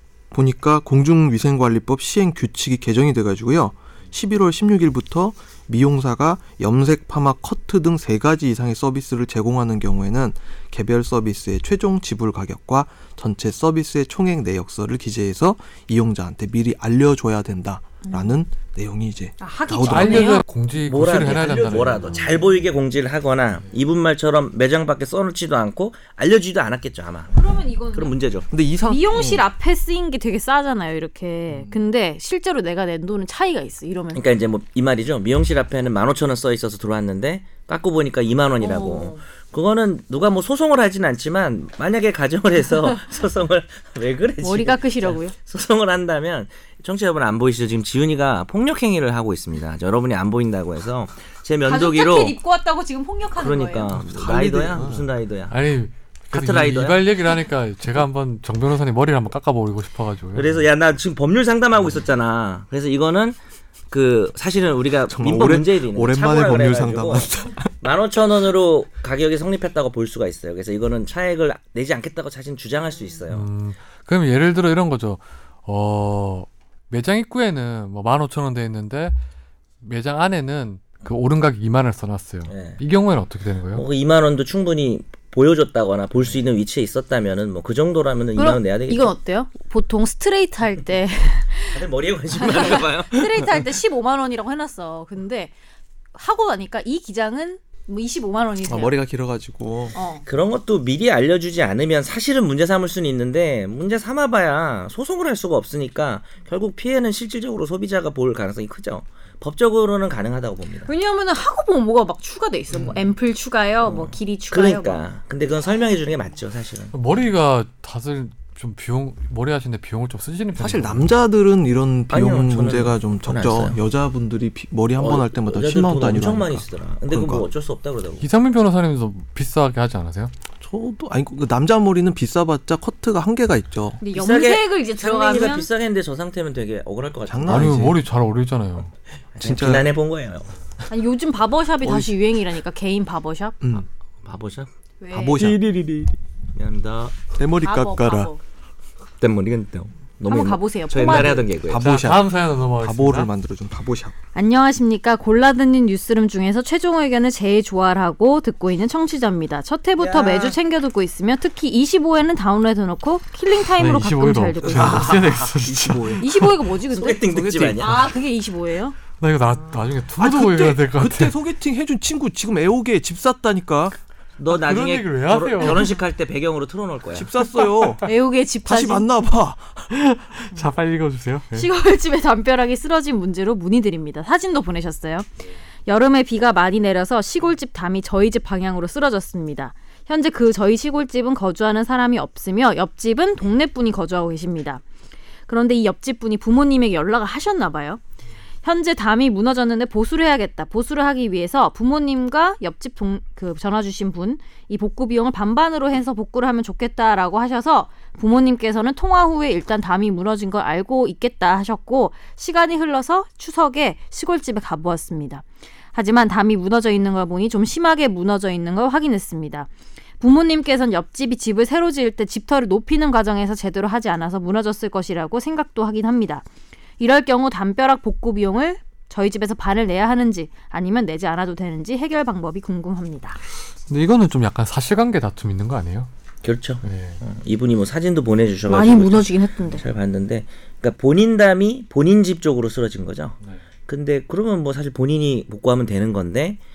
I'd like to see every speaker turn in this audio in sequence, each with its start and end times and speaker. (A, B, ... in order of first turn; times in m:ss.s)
0:00.3-0:20.4 A
0:18.0-0:18.4 B
0:19.4-0:20.4 B
0:19.8-0:22.4 C
0:20.8-0:28.5 D
0:27.3-0:28.2 B
0:28.5-0:29.4 A
0:28.8-0:34.2 B
0:31.5-0:31.8 A
0:34.1-0:52.4 D
0:38.6-0:39.2 B
0:44.4-0:45.3 B
0:51.6-0:53.9 B
0:53.4-0:55.6 D
0:53.9-0:55.1 A
0:55.5-1:00.6 C
0:56.3-0:57.0 D
1:00.4-1:03.4 D
1:03.9-1:07.3 D
1:05.1-1:07.7 A
1:07.8-1:13.5 D
1:13.3-1:19.2 C
1:19.8-1:23.8 C
1:22.5-1:22.8 D
1:23.7-1:29.1 D
1:28.4-1:31.8 B
1:31.7-1:33.6 D
1:32.4-1:35.5 B
1:36.1-1:38.9 B
1:38.7-1:40.0 A
1:39.9-1:40.2 B
1:40.2-1:50.9 D
1:50.8-1:55.0 B
1:53.8-1:56.9 D
1:56.9-2:01.1 C
2:00.6-2:07.4 A
2:02.1-2:03.8 D
2:05.0-2:08.2 D
2:08.2-2:10.3 C
2:10.6-2:14.0 A
2:14.0-2:15.7 B
2:14.1-2:17.8 D
2:17.3-2:18.0 A
2:17.5-2:18.9 C
2:19.3-2:20.5 D
2:19.4-2:19.9 A
2:20.9-2:23.6 B
2:21.8-2:22.2 A
2:23.6-2:23.9 A
2:24.2-2:24.7 D
2:25.0-2:25.6 B
2:25.1-2:26.1 A
2:26.5-2:27.2 D
2:27.4-2:28.3 A
2:27.6-2:28.4 B
2:29.2-2:31.8 D
2:30.2-2:31.5 B
2:31.1-2:32.3 A
2:31.7-2:33.3 C
2:32.8-2:34.1 A
2:34.4-2:45.2 B
2:40.0-2:40.6 D
2:43.8-2:46.4 C
2:44.6-2:46.5 A
2:46.2-2:49.0 B
2:46.9-2:48.1 D
2:47.3-2:47.9 A
2:49.2-2:51.4 C
2:50.2-2:54.0 A
2:54.4-2:57.3 D
2:54.5-2:56.0 C
2:57.1-2:58.0 A
2:58.0-2:59.1 B
2:58.6-2:59.9 A
2:59.9-3:01.7 C
3:01.5-3:05.3 B
3:05.9-3:14.8 B
3:15.5-3:18.0 B
3:18.6-3:39.7 B
3:40.2-3:46.4 B
3:47.0-3:53.4 B
3:53.9-3:56.1 C
3:56.4-4:06.6 D
3:56.8-3:57.2 C
3:58.7-3:59.8 B